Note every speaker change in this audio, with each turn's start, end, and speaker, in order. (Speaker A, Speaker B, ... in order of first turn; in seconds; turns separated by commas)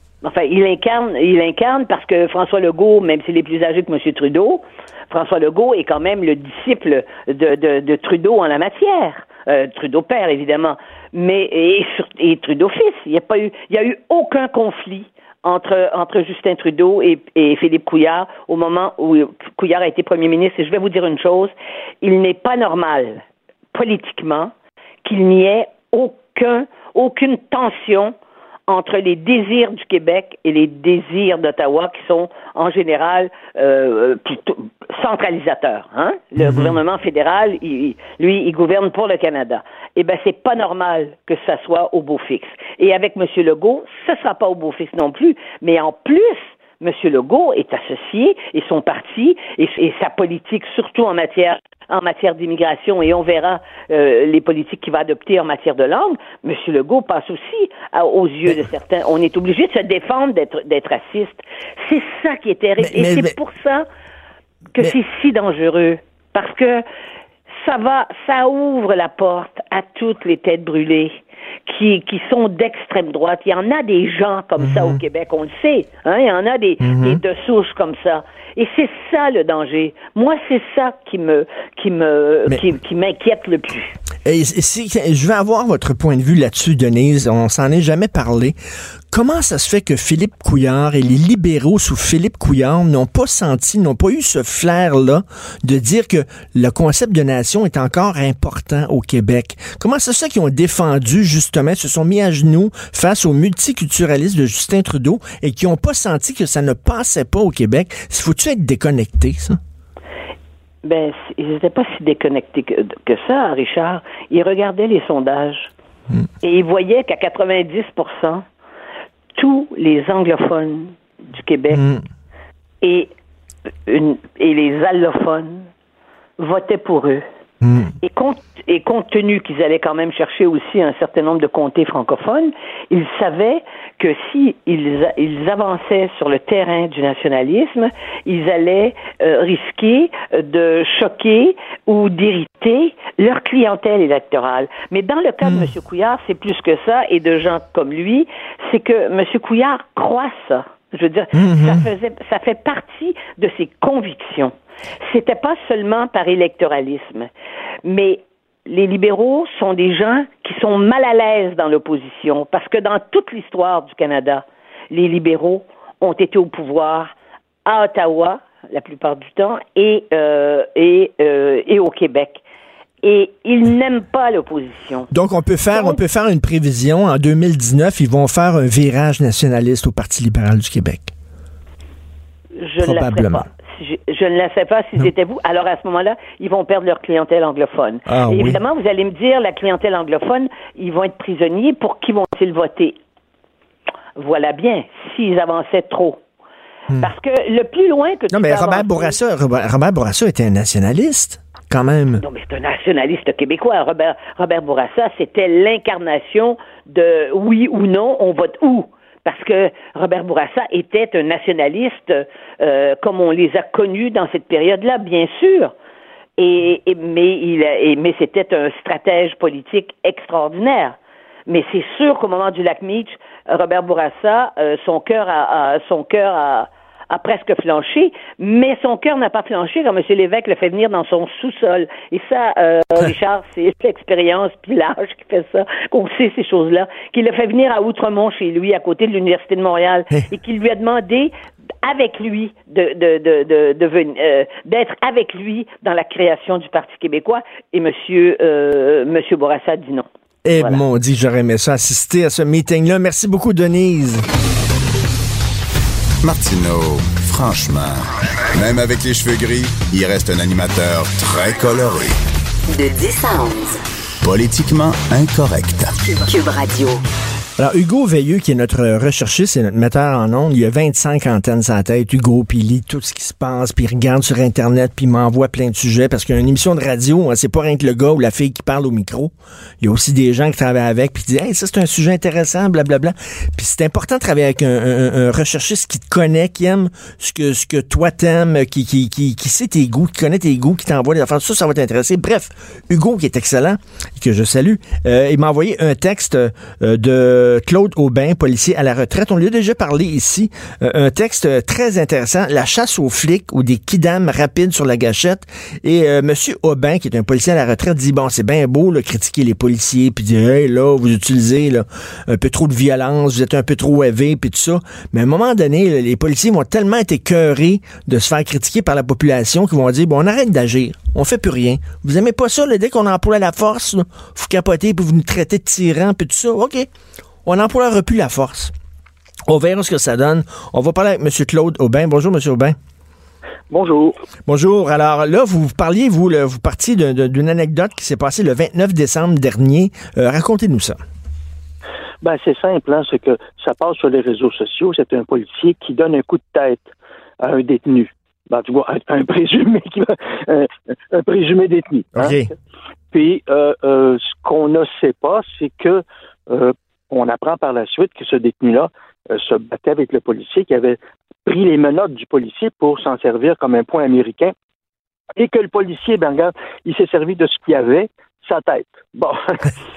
Speaker A: 0.2-23.2, Speaker A: 23.7-24.5, Speaker A: 25.0-28.1, Speaker A: 28.7-63.9, Speaker B: 36.4-36.8, Speaker B: 62.8-63.4, Speaker A: 64.8-66.8, Speaker A: 67.6-71.1, Speaker A: 71.7-84.0, Speaker B: 74.6-75.0, Speaker B: 76.8-77.2, Speaker B: 84.2-88.5, Speaker B: 89.1-109.6, Speaker A: 110.8-115.7, Speaker A: 116.4-118.4, Speaker A: 119.3-121.9, Speaker B: 121.7-122.0, Speaker A: 122.8-123.1, Speaker A: 123.9-125.7, Speaker A: 126.4-127.2, Speaker B: 127.6-127.9, Speaker A: 128.0-154.5, Speaker B: 145.4-145.7, Speaker B: 151.3-151.8, Speaker A: 155.0-157.3, Speaker A: 157.8-167.1, Speaker A: 167.6-172.4, Speaker A: 173.0-175.1, Speaker B: 175.1-181.1, Speaker A: 175.7-176.0, Speaker A: 182.6-193.0, Speaker B: 182.8-183.5, Speaker B: 188.1-188.6, Speaker A: 194.2-196.2, Speaker A: 197.0-199.2, Speaker B: 198.3-202.2, Speaker A: 202.2-215.7, Speaker A: 216.4-241.3, Speaker A: 241.8-250.8, Speaker B: 250.4-254.2, Speaker C: 256.2-262.2, Speaker D: 262.7-263.8, Speaker C: 264.2-265.9, Speaker D: 266.0-267.0, Speaker B: 267.6-326.9, Speaker B: 327.4-328.7, Speaker B: 329.5-332.8, Speaker E: 333.7-334.2, Speaker B: 334.5-341.0, Speaker E: 342.2-352.4, Speaker B: 352.1-352.5, Speaker E: 353.1-364.5, Speaker E: 365.4-369.8